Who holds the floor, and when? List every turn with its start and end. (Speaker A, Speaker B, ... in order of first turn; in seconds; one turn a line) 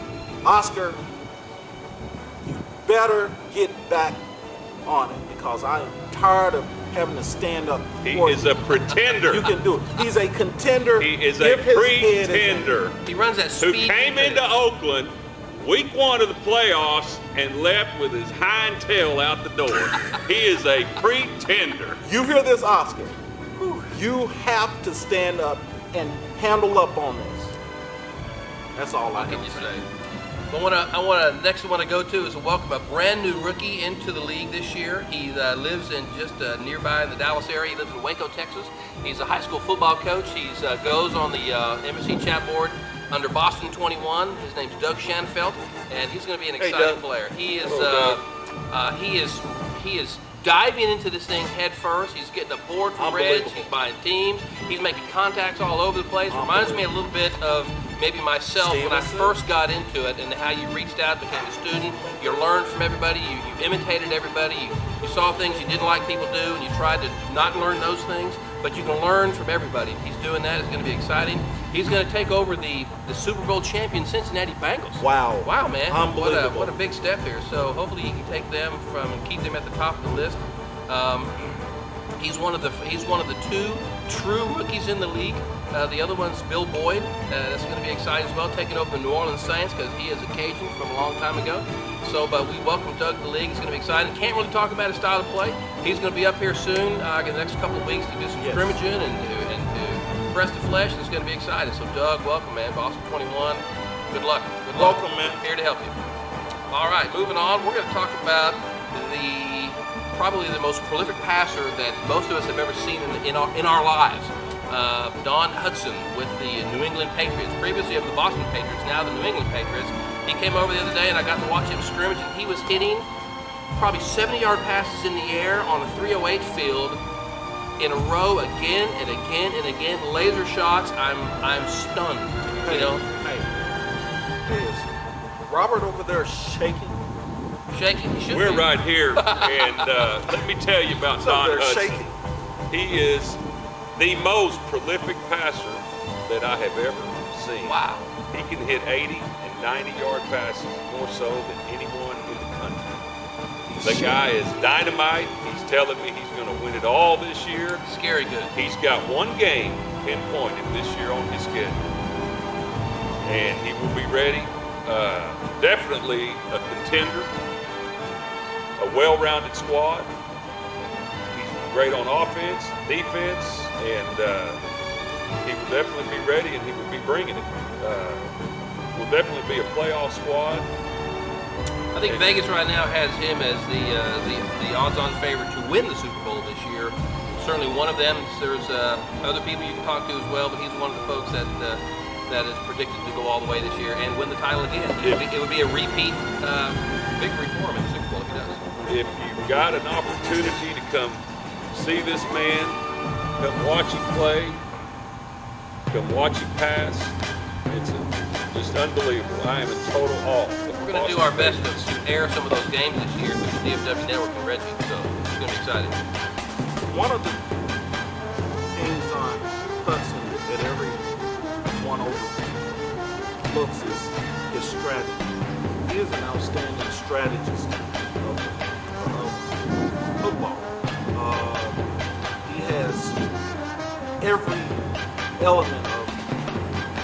Speaker A: 0.4-1.0
Speaker A: 2.5-4.2
Speaker A: 4.8-8.6
Speaker B: 8.0-9.5
Speaker A: 9.2-12.8
Speaker B: 11.0-13.0
Speaker C: 13.1-14.5
Speaker B: 13.6-22.0
Speaker C: 20.0-20.2
Speaker A: 22.0-23.1
Speaker C: 23.6-24.0
Speaker A: 23.9-27.5
Speaker A: 28.8-29.7
Speaker C: 29.1-29.9
Speaker C: 30.5-81.6
Speaker A: 46.6-47.0
Speaker B: 47.6-48.2
Speaker B: 53.0-53.3
Speaker A: 53.0-53.6
Speaker A: 56.3-56.9
Speaker A: 58.5-59.4
Speaker A: 75.0-76.8
Speaker C: 82.2-106.0
Speaker A: 98.4-98.8
Speaker A: 104.7-105.4
Speaker C: 106.7-123.1
Speaker C: 123.8-127.0
Speaker C: 127.8-133.1
Speaker A: 132.6-133.5
Speaker A: 134.5-134.9
Speaker A: 135.5-137.0
Speaker C: 137.7-140.2
Speaker B: 138.3-142.0
Speaker A: 141.2-142.2
Speaker B: 142.7-143.4
Speaker B: 144.0-147.8
Speaker C: 147.6-148.1
Speaker B: 148.3-153.0
Speaker A: 153.7-154.3
Speaker B: 153.8-157.8
Speaker C: 157.8-158.5
Speaker B: 158.5-161.8
Speaker B: 163.2-167.3
Speaker B: 168.8-170.1
Speaker B: 171.3-174.6
Speaker B: 175.4-178.3
Speaker B: 178.9-180.7
Speaker C: 181.9-198.6
Speaker B: 182.0-182.3
Speaker B: 198.9-202.8
Speaker B: 203.4-204.6
Speaker B: 205.9-207.2
Speaker B: 207.7-211.9
Speaker C: 210.8-216.0
Speaker A: 216.9-217.4
Speaker A: 218.7-221.0
Speaker A: 221.7-222.5
Speaker A: 223.5-229.5
Speaker A: 230.2-231.9
Speaker A: 232.4-233.2
Speaker A: 234.2-234.8
Speaker A: 235.4-236.2